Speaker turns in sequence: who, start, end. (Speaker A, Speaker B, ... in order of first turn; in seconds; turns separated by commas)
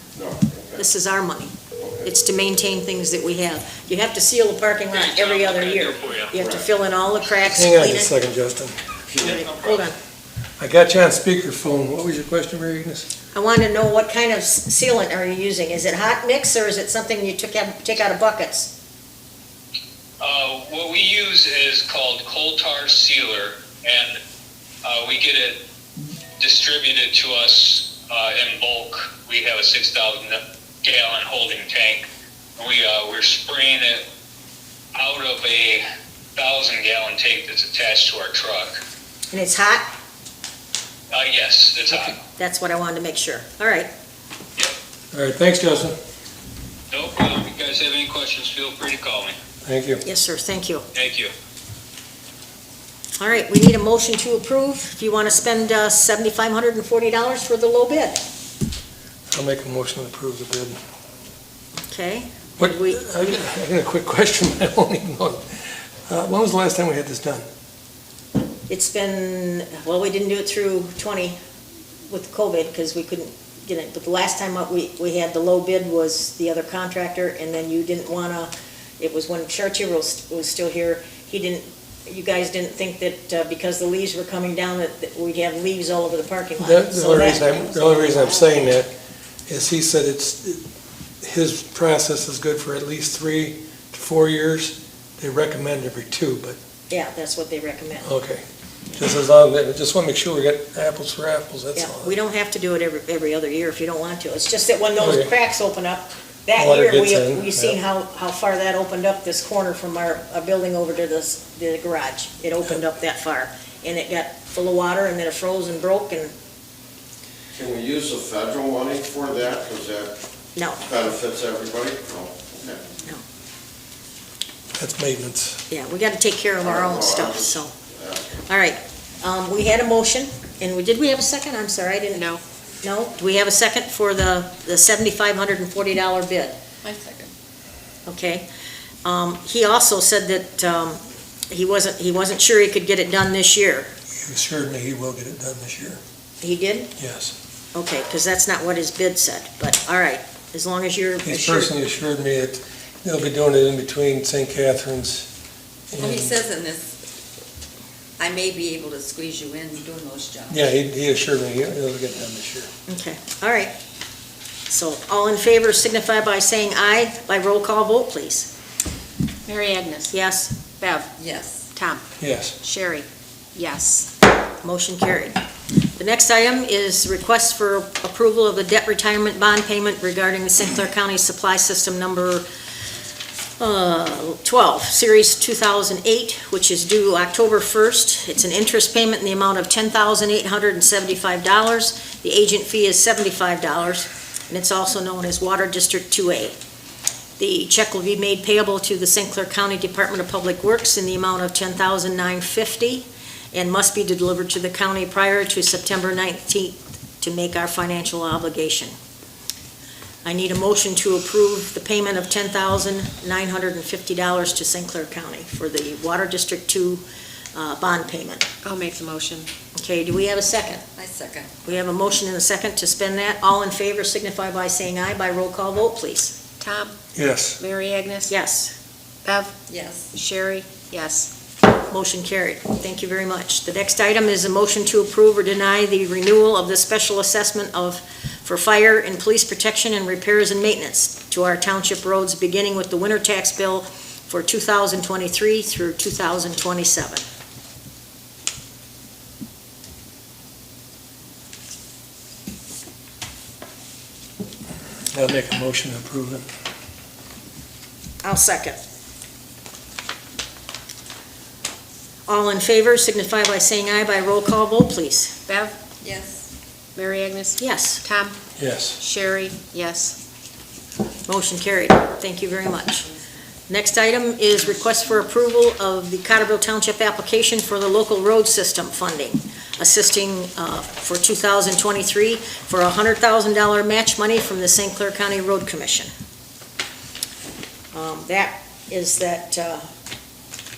Speaker A: 0.1-0.8, Speaker B: 0.8-1.5, Speaker A: 1.8-2.1, Speaker B: 2.0-8.1, Speaker C: 4.9-6.3, Speaker A: 6.3-6.7, Speaker D: 7.5-8.8, Speaker A: 9.1-9.4, Speaker B: 9.2-9.9, Speaker C: 9.2-9.9, Speaker D: 10.6-13.1, Speaker B: 13.3-18.7, Speaker C: 20.2-24.2, Speaker C: 24.8-25.6, Speaker C: 26.4-32.0, Speaker C: 32.6-34.0, Speaker C: 35.0-35.8, Speaker C: 36.3-38.8, Speaker B: 39.3-39.9, Speaker C: 41.1-42.2, Speaker B: 41.9-43.9, Speaker D: 45.1-46.0, Speaker C: 46.9-49.3, Speaker D: 49.6-50.0, Speaker B: 50.0-50.8, Speaker C: 51.0-51.3, Speaker B: 53.2-58.2, Speaker D: 59.3-60.8, Speaker B: 61.9-63.4, Speaker D: 62.6-67.5, Speaker B: 68.7-71.4, Speaker B: 72.1-88.5, Speaker D: 86.6-88.9, Speaker D: 89.5-90.6, Speaker D: 91.2-96.6, Speaker B: 96.9-98.1, Speaker D: 98.0-98.4, Speaker D: 99.0-102.2, Speaker B: 101.8-116.3, Speaker D: 105.0-105.3, Speaker D: 106.6-107.8, Speaker A: 117.5-120.1, Speaker B: 120.6-120.8, Speaker A: 120.8-122.8, Speaker D: 124.8-125.6, Speaker B: 125.7-127.7, Speaker A: 126.6-128.3, Speaker B: 128.5-132.2, Speaker E: 132.1-132.4, Speaker B: 132.8-136.6, Speaker F: 136.8-137.3, Speaker B: 138.1-138.4, Speaker B: 139.0-143.9, Speaker D: 144.2-146.0, Speaker B: 146.4-146.9, Speaker D: 147.0-147.3, Speaker B: 147.7-151.7, Speaker D: 151.2-155.3, Speaker D: 155.9-156.3, Speaker F: 155.9-156.9, Speaker F: 158.2-160.7, Speaker D: 160.5-162.7, Speaker B: 162.9-163.7, Speaker B: 164.7-168.5, Speaker E: 169.4-170.1, Speaker B: 170.1-170.6, Speaker E: 170.7-171.1, Speaker F: 171.2-171.7, Speaker E: 171.7-172.1, Speaker D: 172.2-172.5, Speaker E: 172.6-174.1, Speaker B: 174.6-175.3, Speaker B: 175.9-182.4, Speaker B: 183.6-196.6, Speaker B: 197.4-208.9, Speaker B: 210.2-217.0, Speaker B: 217.5-218.4, Speaker E: 218.6-219.5, Speaker B: 219.8-220.8, Speaker F: 220.9-221.5, Speaker B: 221.6-226.3, Speaker E: 226.6-226.9, Speaker D: 227.1-227.6, Speaker E: 227.6-228.3, Speaker B: 228.3-228.7, Speaker E: 229.2-229.5, Speaker F: 229.7-230.1, Speaker E: 230.1-231.3, Speaker B: 231.9-247.2, Speaker D: 255.1-256.4, Speaker B: 258.2-258.8, Speaker B: 262.3-265.4, Speaker E: 265.5-265.8, Speaker F: 266.0-266.5, Speaker E: 267.0-268.4, Speaker B: 267.6-268.0, Speaker D: 268.6-269.0, Speaker E: 269.0-270.2, Speaker B: 271.3-273.1, Speaker B: 273.7-286.1, Speaker B: 287.9-289.9